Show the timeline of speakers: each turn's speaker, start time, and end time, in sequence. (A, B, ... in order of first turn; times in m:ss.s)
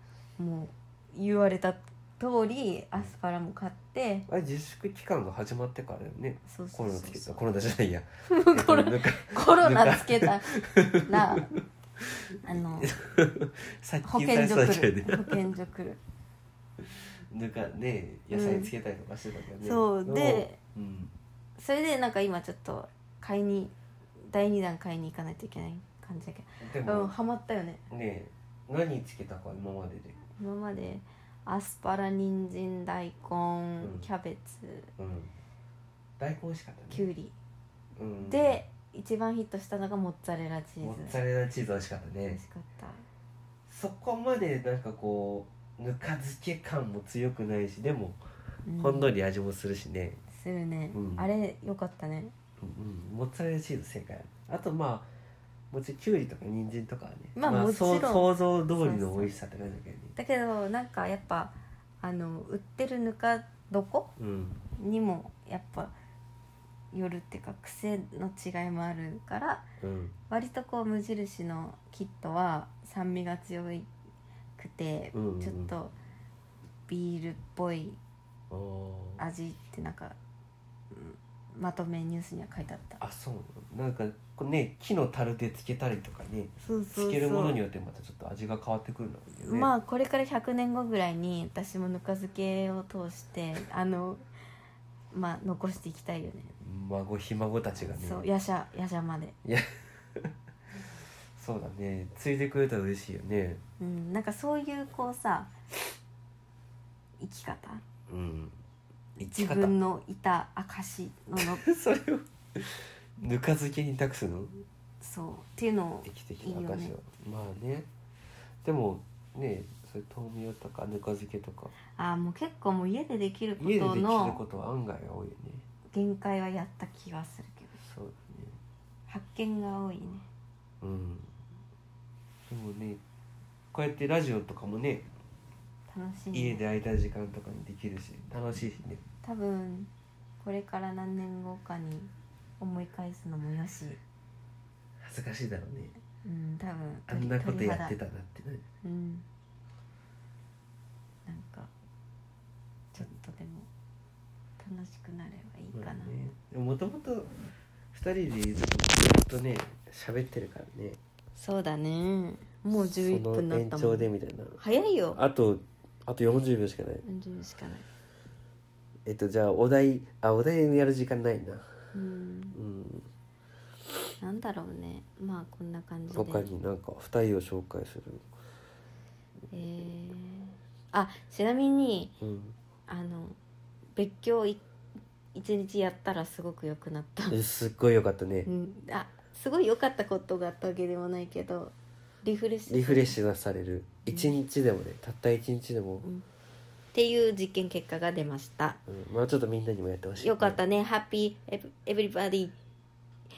0:00.4-0:04.3 A
0:04.3-0:15.4 B
0:06.4-0:07.4 A
0:08.3-0:11.6 A
0:12.4-0:12.9 A
0:14.0-0:16.0 A
0:17.3-0:21.2 B
0:18.3-0:18.7 A
0:19.6-0:20.6 A
0:21.6-0:27.8 A
0:26.6-0:27.1 B
0:27.9-0:30.2 B
0:30.3-0:34.9 A
0:33.8-0:34.1 B
0:35.0-0:35.3 B
0:36.2-0:37.1 B
0:36.9-0:37.4 A
0:38.0-0:38.6 B
0:38.2-0:41.2 A
0:40.8-0:42.4 B
0:42.2-0:43.0 A
0:43.7-0:48.2 B
0:48.6-0:49.1 A
0:48.8-0:50.2 B
0:50.3-0:52.3 A
0:50.9-0:51.3 B
0:52.6-0:55.1 B
0:55.7-1:00.2 B
0:57.4-0:59.3 A
1:00.2-1:04.1 A
1:04.2-1:04.6 B
1:04.8-1:05.9 A
1:06.9-1:09.6 A
1:09.8-1:10.2 B
1:10.3-1:13.9 A
1:14.6-1:15.9 A
1:15.1-1:15.7 B
1:16.9-1:18.0 A
1:18.5-1:19.2 B
1:19.2-1:20.2 A
1:20.9-1:23.0 A
1:23.0-1:29.7 B
1:26.6-1:27.6 A
1:29.4-1:34.2 A
1:35.1-1:36.5 A
1:36.6-1:38.3 B
1:37.8-1:39.4 A
1:39.4-1:40.3 B
1:41.4-1:43.6 B
1:43.8-1:45.5 A
1:47.2-1:47.8 A
1:48.1-1:48.6 B
1:49.2-1:49.8 B
1:49.2-1:51.7 A
1:51.4-1:54.6 B
1:55.0-1:56.9 A
1:56.0-1:57.9 B
1:58.6-2:01.7 B
2:02.0-2:04.4 A
2:03.6-2:05.7 B
2:05.9-2:07.8 A
2:07.8-2:08.6 B
2:09.1-2:10.3 A
2:10.8-2:11.3 B
2:12.5-2:13.0 B
2:13.7-2:15.1 B
2:15.9-2:16.6 A
2:16.3-2:19.0 B
2:19.2-2:24.0 A
2:25.0-2:25.9 B
2:26.2-2:28.0 A
2:27.1-2:28.6 B
2:28.8-2:29.3 A
2:31.3-2:31.7 A
2:32.9-2:33.7 A
2:34.6-2:36.2 A
2:35.7-2:37.3 B
2:37.9-2:41.0 B
2:41.4-2:45.2 A
2:42.8-2:44.6 B
2:45.1-2:47.0 B
2:47.0-2:47.9 A
2:49.1-2:51.7 B
2:51.9-2:52.6 A
2:52.5-2:53.1 B
2:54.2-2:56.5 A
2:56.1-2:58.3 B
2:59.5-3:02.2 A
3:02.2-3:02.6 B
3:02.9-3:03.4 A
3:04.0-3:04.6 A
3:05.3-3:07.4 A
3:07.3-3:08.5 B
3:08.5-3:13.2 A
3:12.7-3:16.1 B
3:14.1-3:14.4 A
3:16.9-3:18.8 A
3:18.9-3:20.6 B
3:20.2-3:22.6 A